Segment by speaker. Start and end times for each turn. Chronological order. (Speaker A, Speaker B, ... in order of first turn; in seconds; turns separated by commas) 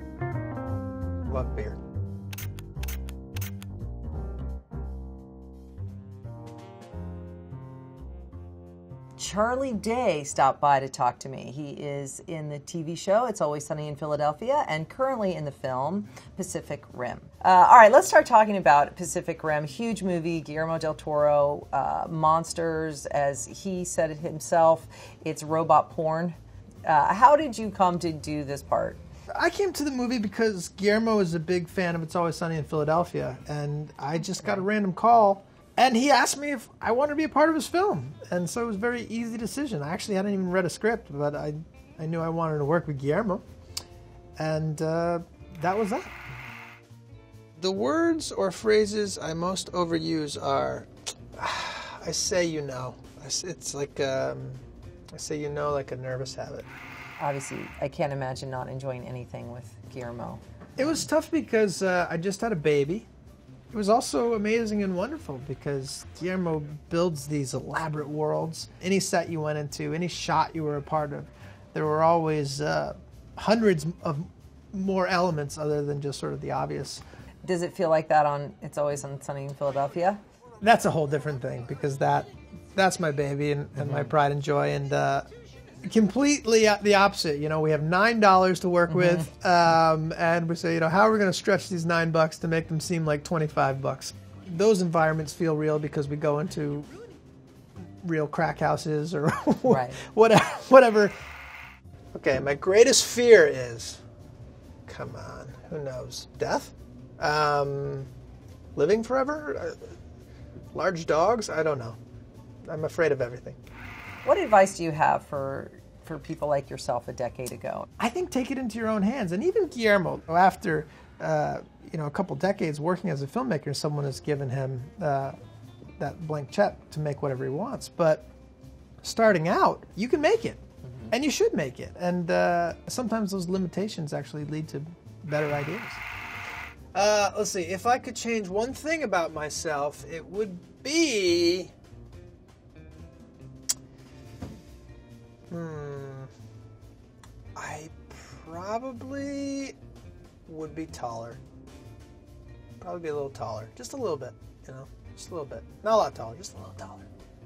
Speaker A: 1.2-1.8, Speaker B: 9.2-29.0, Speaker A: 29.3-43.4, Speaker A: 44.4-46.1, Speaker A: 47.6-56.7, Speaker B: 57.2-60.4, Speaker A: 60.8-63.1, Speaker A: 63.7-77.0, Speaker B: 77.4-80.2, Speaker A: 80.6-85.3, Speaker B: 83.8-84.1, Speaker A: 85.8-96.9, Speaker B: 88.9-89.3, Speaker A: 98.0-101.1, Speaker B: 99.7-100.0, Speaker A: 102.1-104.0, Speaker A: 104.8-108.1, Speaker A: 108.7-109.8, Speaker A: 110.7-112.0, Speaker A: 112.7-113.6, Speaker B: 114.2-117.9, Speaker A: 118.0-125.3, Speaker A: 126.0-128.3, Speaker A: 129.0-136.0, Speaker A: 136.9-141.7, Speaker A: 145.5-146.3, Speaker A: 147.6-149.8, Speaker A: 150.4-151.4, Speaker A: 152.8-157.1